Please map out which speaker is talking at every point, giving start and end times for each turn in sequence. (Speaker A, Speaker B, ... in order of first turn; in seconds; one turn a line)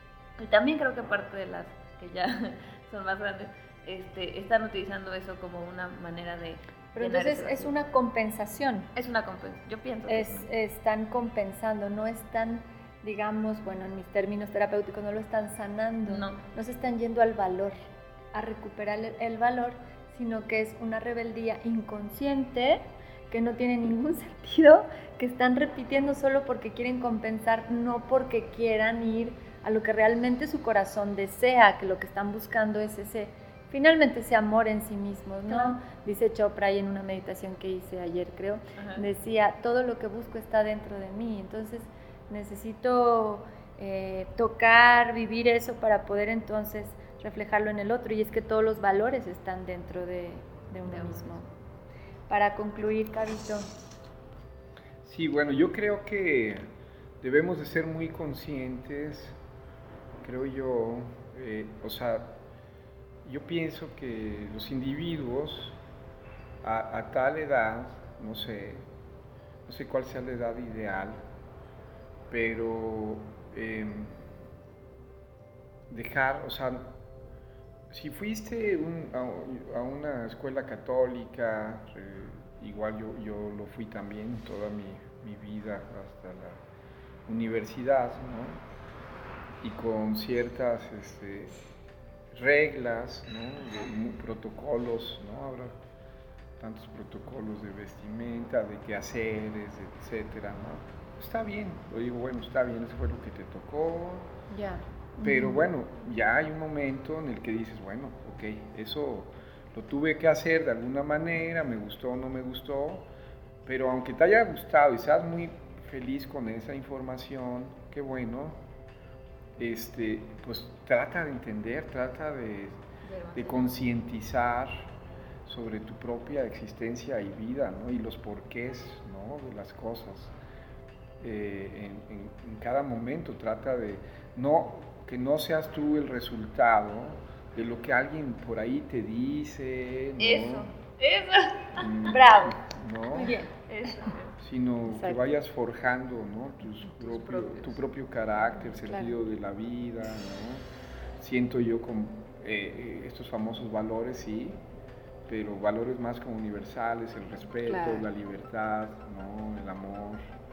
Speaker A: 0.4-7.7
Speaker B: 6.9-8.9
Speaker A: 8.9-10.5
Speaker B: 10.1-17.8
Speaker A: 16.1-16.4
Speaker B: 18.3-51.4
Speaker A: 38.8-39.0
Speaker B: 52.3-53.7
Speaker C: 55.0-56.7
Speaker C: 57.2-59.4
Speaker C: 60.2-62.4
Speaker C: 63.2-65.8
Speaker C: 66.6-68.9
Speaker C: 69.7-71.3
Speaker C: 72.3-74.2
Speaker C: 75.9-77.0
Speaker C: 77.9-86.6
Speaker C: 87.2-88.6
Speaker C: 89.6-91.5
Speaker C: 92.3-95.8
Speaker C: 96.6-104.3
Speaker B: 104.5-105.6
Speaker C: 105.2-113.1
Speaker C: 113.6-118.6
Speaker C: 119.6-122.8
Speaker A: 123.0-123.6
Speaker C: 123.3-130.3
Speaker C: 131.2-140.7
Speaker A: 140.2-142.5
Speaker C: 141.8-143.4
Speaker B: 143.1-143.5
Speaker A: 143.1-144.3
Speaker C: 144.4-150.7
Speaker B: 144.9-145.2
Speaker A: 146.8-147.8
Speaker B: 148.8-149.1
Speaker C: 151.2-154.6
Speaker C: 155.3-160.3
Speaker B: 157.7-158.1